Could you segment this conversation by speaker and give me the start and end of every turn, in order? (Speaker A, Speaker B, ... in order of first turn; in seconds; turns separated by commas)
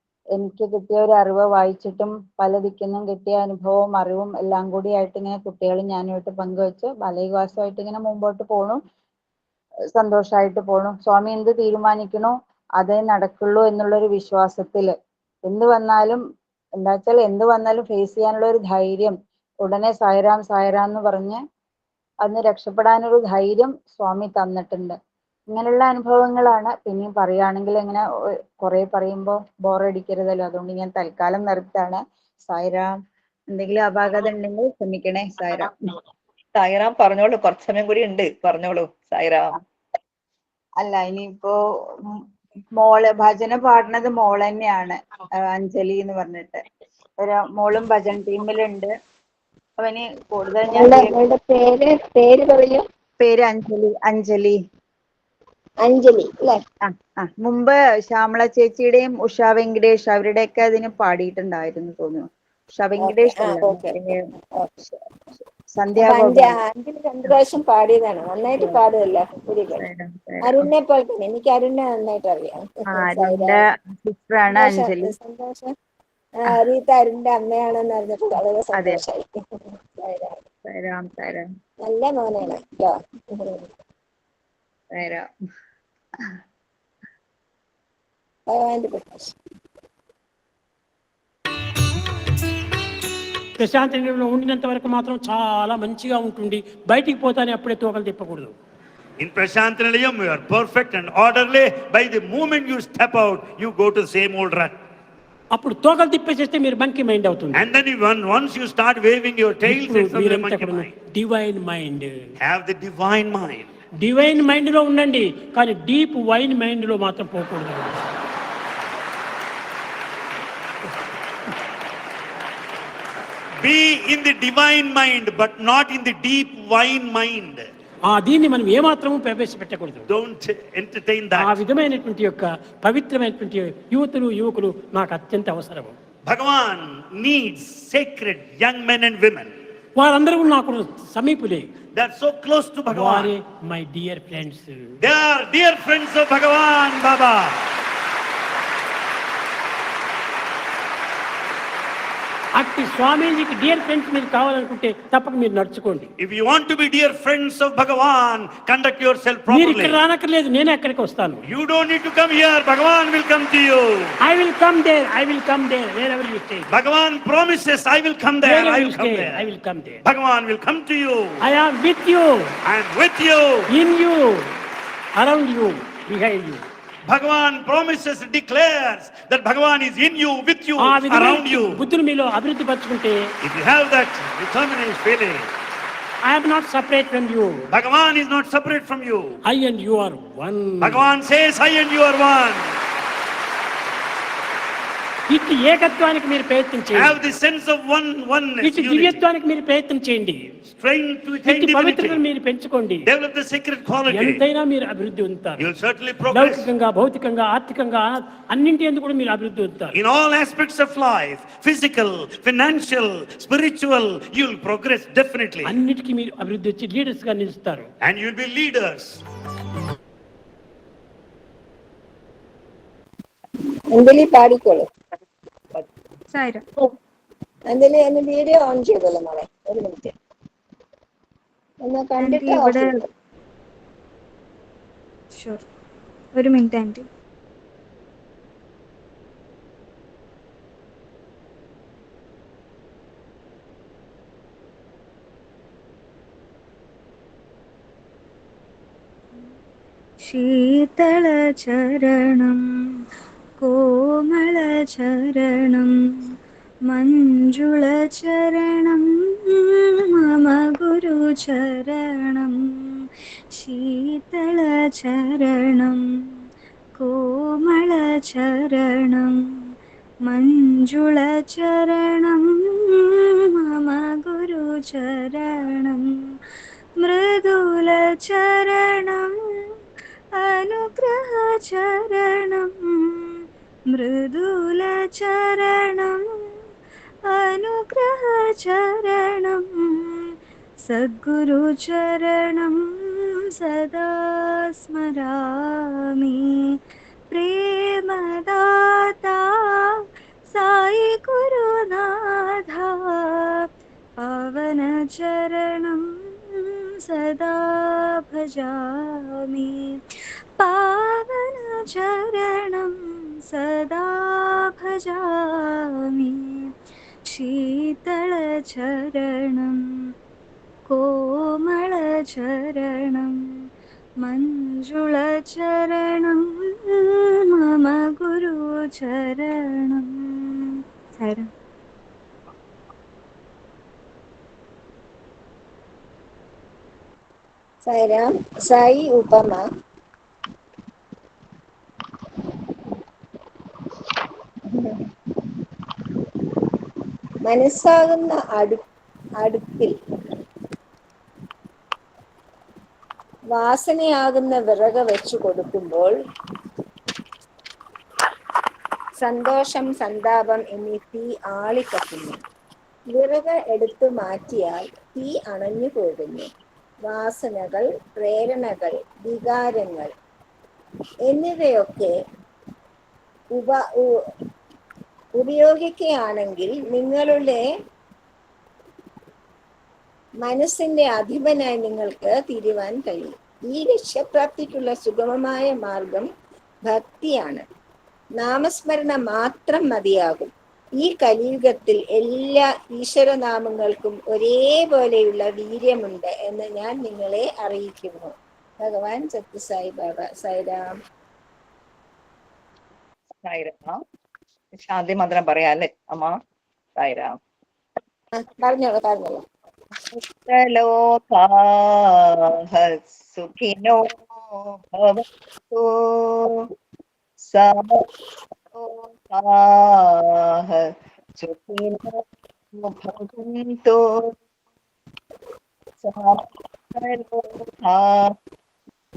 Speaker A: 0.4-8.8, Speaker A: 9.9-14.9, Speaker A: 15.5-16.2, Speaker A: 16.8-21.4, Speaker A: 22.2-25.0, Speaker A: 25.5-28.0, Speaker A: 28.6-32.9, Speaker A: 33.5-35.8, Speaker B: 36.5-39.5, Speaker A: 40.8-41.6, Speaker A: 42.8-46.6, Speaker A: 47.2-48.9, Speaker A: 49.8-51.1, Speaker C: 50.7-52.8, Speaker A: 53.2-54.6, Speaker C: 55.8-56.6, Speaker A: 56.9-62.2, Speaker A: 62.8-64.3, Speaker C: 63.0-63.9, Speaker A: 65.8-66.5, Speaker C: 66.0-69.8, Speaker A: 69.8-70.7, Speaker C: 70.4-73.6, Speaker A: 72.9-75.1, Speaker C: 74.5-75.7, Speaker C: 76.4-79.3, Speaker C: 80.0-80.4, Speaker A: 80.7-81.5, Speaker C: 81.8-83.7, Speaker A: 85.0-85.3, Speaker C: 88.5-89.3, Speaker D: 93.6-98.5, Speaker E: 99.2-104.8, Speaker D: 105.5-107.6, Speaker E: 107.5-110.9, Speaker D: 109.7-112.2, Speaker E: 112.4-113.7, Speaker D: 114.0-118.1, Speaker E: 123.6-127.7, Speaker D: 128.1-130.1, Speaker E: 130.1-131.6, Speaker D: 131.3-136.0, Speaker E: 136.3-139.5, Speaker D: 140.0-141.7, Speaker E: 141.9-143.3, Speaker D: 142.9-145.0, Speaker E: 145.0-147.7, Speaker D: 152.6-156.1, Speaker E: 156.2-160.0, Speaker D: 159.5-161.4, Speaker E: 161.5-164.2, Speaker D: 164.2-166.7, Speaker E: 166.7-169.4, Speaker D: 168.4-170.0, Speaker E: 170.0-171.4, Speaker D: 171.4-172.6, Speaker E: 172.7-173.7, Speaker D: 173.7-174.5, Speaker D: 175.2-176.6, Speaker E: 177.1-181.8, Speaker D: 180.8-183.3, Speaker E: 183.4-185.5, Speaker D: 186.2-187.7, Speaker E: 187.7-189.4, Speaker D: 189.5-191.1, Speaker E: 190.8-192.8, Speaker D: 195.3-197.2, Speaker E: 196.9-199.2, Speaker D: 198.6-200.5, Speaker E: 200.7-202.2, Speaker D: 201.5-203.1, Speaker E: 203.1-204.4, Speaker D: 204.1-205.7, Speaker E: 205.6-206.7, Speaker D: 206.3-210.0, Speaker E: 209.9-215.8, Speaker D: 215.7-217.9, Speaker E: 218.0-219.2, Speaker C: 223.9-224.9, Speaker F: 226.3-226.6, Speaker C: 227.7-230.1, Speaker C: 231.8-232.9, Speaker F: 232.2-232.9, Speaker F: 235.3-235.6, Speaker F: 236.4-237.1, Speaker F: 250.3-252.6, Speaker F: 253.6-256.0, Speaker F: 256.9-262.7, Speaker F: 263.6-266.0, Speaker F: 267.0-269.4, Speaker F: 270.3-276.1, Speaker F: 277.0-279.4, Speaker F: 280.4-283.2, Speaker F: 283.9-286.3, Speaker F: 287.3-290.1, Speaker F: 290.9-296.7, Speaker F: 297.3-299.9, Speaker F: 300.5-303.6, Speaker F: 304.2-306.1, Speaker F: 307.1-310.0, Speaker F: 310.6-313.0, Speaker F: 313.5-316.7, Speaker F: 317.3-319.8, Speaker F: 320.9-323.4, Speaker F: 324.2-331.5, Speaker C: 337.9-339.6, Speaker C: 344.7-345.1, Speaker C: 347.4-348.8, Speaker C: 349.4-349.9, Speaker C: 353.5-356.1, Speaker C: 359.2-362.4, Speaker C: 363.1-366.5, Speaker C: 367.1-370.1, Speaker C: 371.3-372.1, Speaker C: 373.5-374.1, Speaker C: 375.4-377.6, Speaker C: 380.4-386.3, Speaker C: 386.9-387.6, Speaker C: 388.4-400.9, Speaker B: 403.4-404.0, Speaker B: 404.7-406.4, Speaker B: 407.0-407.4, Speaker C: 408.3-409.4, Speaker B: 410.1-416.7, Speaker B: 417.4-418.1, Speaker B: 418.7-420.9, Speaker B: 421.4-422.2, Speaker B: 422.7-424.3, Speaker B: 426.0-428.3